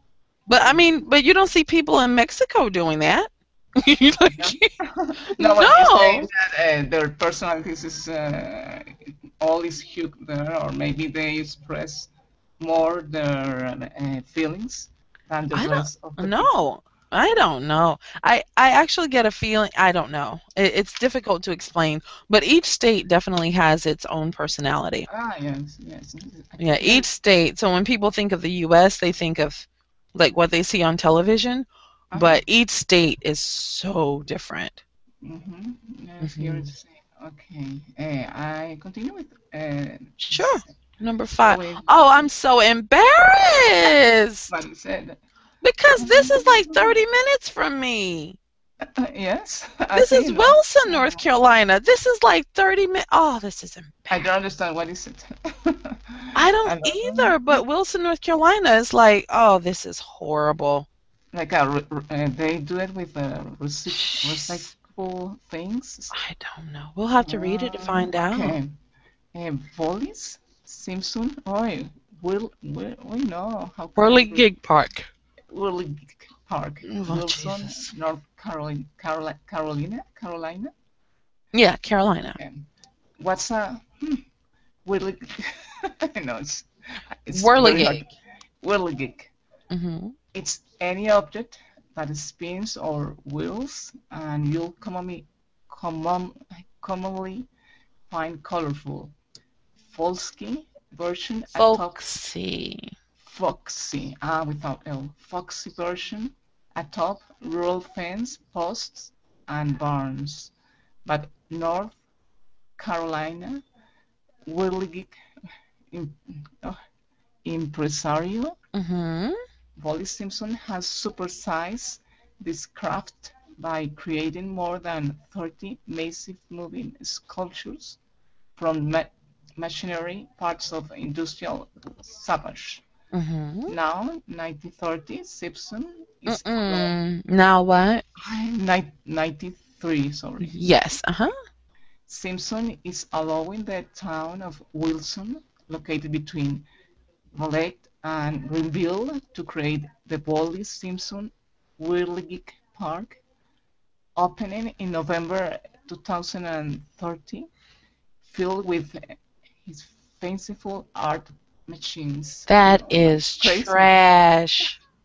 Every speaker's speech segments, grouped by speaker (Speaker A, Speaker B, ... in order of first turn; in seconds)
Speaker A: 0.5-4.7, 5.4-6.3, 15.5-25.1, 26.6-34.8, 36.2-36.7, 40.2-44.5, 45.6-48.4, 49.9-54.3, 56.3-60.9, 63.9-64.7, 66.1-68.6, 74.0-75.1, 76.8-77.9, 81.5-82.4, 87.3-88.0, 89.7-90.1, 101.5-102.9, 118.7-119.4, 133.1-133.7, 136.3-138.0, 140.4-141.3, 162.5-164.8
Speaker B: 0.5-0.9, 4.4-16.5, 25.1-27.1, 32.1-32.4, 35.2-40.7, 41.4-42.1, 44.5-45.2, 46.0-47.0, 48.8-51.2, 54.1-57.6, 61.3-66.1, 67.2-68.8, 69.3-74.5, 75.5-80.7, 82.3-82.7, 83.2-84.2, 84.8-86.7, 87.2-89.3, 90.3-97.5, 98.1-99.1, 99.8-102.0, 103.2-110.5, 111.0-112.0, 112.8-113.6, 114.4-115.1, 115.9-116.8, 117.4-118.5, 119.8-128.0, 128.6-132.8, 133.7-136.9, 138.2-140.6, 142.1-146.6, 147.3-153.2, 154.2-157.5, 158.2-159.1, 159.6-164.0